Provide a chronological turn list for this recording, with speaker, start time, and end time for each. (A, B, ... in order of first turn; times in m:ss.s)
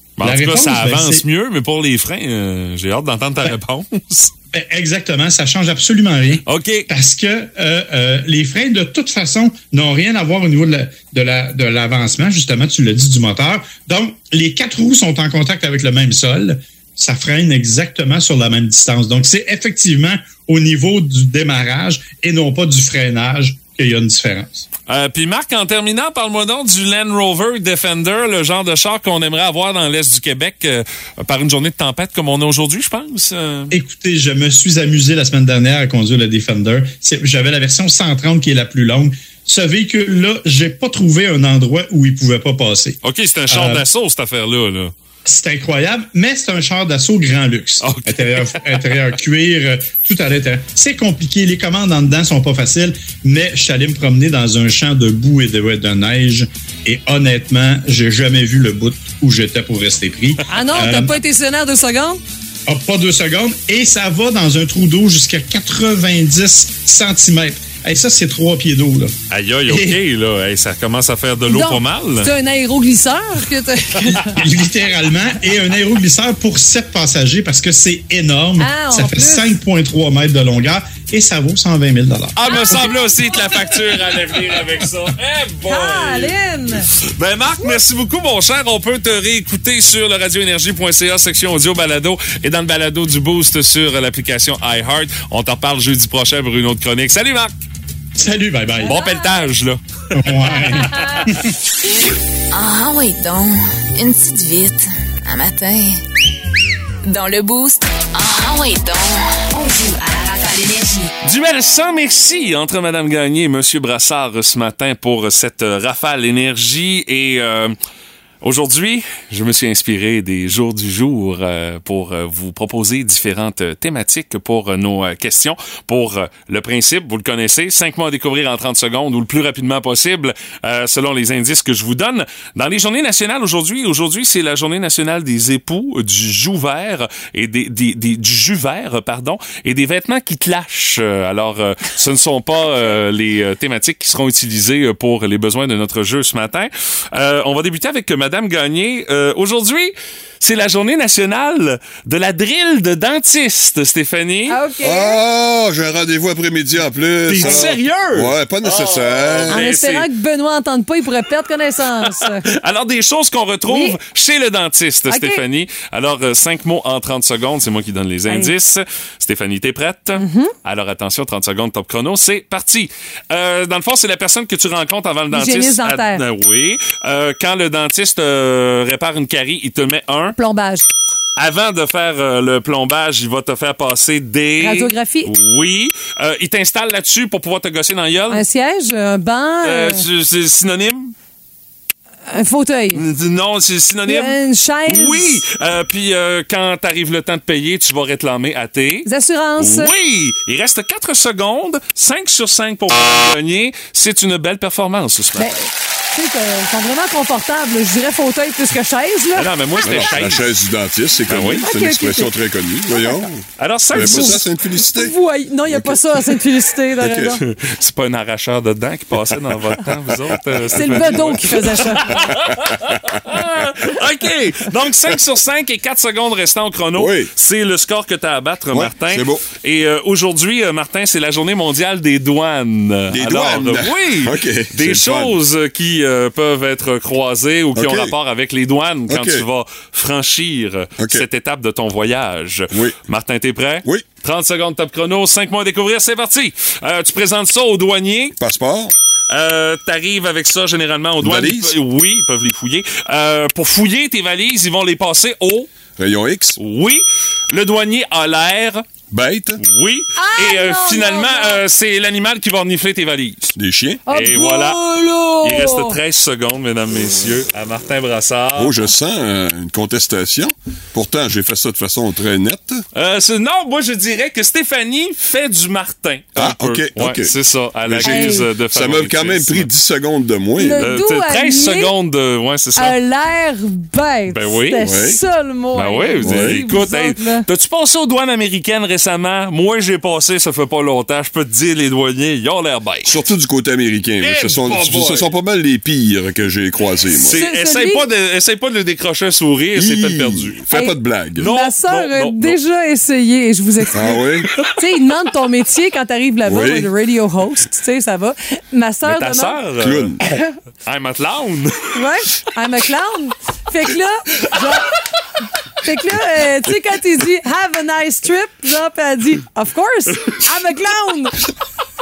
0:00.2-0:04.3 A
0:00.2-0:01.2 B
0:04.5-0:24.6 B
0:06.4-0:06.9 A
0:24.9-0:33.8 A
0:33.7-0:43.8 B
0:43.0-0:44.9 A
0:45.2-1:01.2 B
0:47.8-0:48.6 A
1:00.5-1:02.2 C
1:02.6-1:09.2 B
1:09.3-1:12.3 A
1:09.7-1:10.0 B
1:11.5-1:14.4 C
1:14.0-1:22.8 B
1:18.6-1:19.6 C
1:22.4-1:26.3 A
1:22.5-1:23.8 C
1:25.6-1:26.9 C
1:27.2-1:37.5 A
1:38.2-1:39.0 B
1:38.8-1:39.8 A
1:40.1-1:41.5 B
1:41.8-1:46.0 D
1:47.0-1:51.1 D
1:51.2-1:57.8 A
1:58.4-2:34.6 A
2:34.5-2:35.2 C
2:34.8-2:39.6 E
2:37.2-2:40.0 A
2:39.5-2:42.4 C
2:42.1-3:00.4 A
2:43.7-2:44.0 C
2:45.1-2:45.4 C
2:48.3-2:48.5 C
2:50.2-2:50.5 C
2:55.3-2:56.2 C
3:00.4-3:00.8 C
3:01.4-3:08.4 A
3:04.6-3:05.3 C
3:08.3-3:10.0 C
3:09.6-3:11.1 A
3:12.3-3:13.0 C
3:12.9-3:19.1 A
3:14.0-3:15.4 C
3:19.0-3:19.9 C
3:19.6-3:25.6 A
3:25.4-3:29.5 C
3:29.3-3:30.5 A
3:29.8-3:35.1 E
3:31.3-3:31.7 A
3:31.6-3:32.3 C
3:33.6-3:34.4 A
3:33.9-3:37.4 C
3:35.7-3:36.2 E
3:37.0-3:37.4 E
3:37.4-4:08.4 A
3:40.6-3:42.3 C
3:40.9-3:41.4 E
3:42.1-3:43.3 E
3:46.9-3:47.3 E
3:48.7-3:49.4 E
3:53.1-3:55.4 E
3:57.7-3:58.1 E
3:59.1-3:59.4 E
4:01.0-4:01.2 E
4:02.7-4:03.0 E
4:08.4-4:08.9 E
4:09.3-4:15.7 A
4:11.2-4:11.8 E
4:16.0-4:16.6 E
4:16.6-4:18.8 A
4:19.1-4:19.6 E
4:19.6-4:23.5 A
4:20.2-4:21.6 C
4:23.5-4:24.0 E
4:24.1-4:26.0 C
4:24.1-4:24.8 A
4:25.4-4:28.8 A
4:28.5-4:32.8 E
4:32.9-4:39.7 A
4:36.4-4:40.9 E
4:38.0-4:38.4 C
4:40.6-4:41.9 C
4:40.8-4:43.0 A
4:42.8-4:47.4 C
4:44.3-4:44.8 A
4:44.8-4:45.2 E
4:45.7-4:53.1 A
4:46.2-4:46.6 E
4:53.0-4:57.4 E
4:54.2-4:55.3 A
4:57.2-5:00.6 A
4:57.3-4:58.1 C
4:59.7-5:01.5 E
5:00.7-5:09.6 C
5:01.4-5:02.6 A
5:03.9-5:04.5 E
5:06.4-5:06.9 E
5:09.0-5:10.2 A
5:09.8-5:10.2 E
5:10.2-5:10.5 C
5:10.8-5:12.0 A
5:11.9-5:15.0 C
5:15.8-5:21.4 C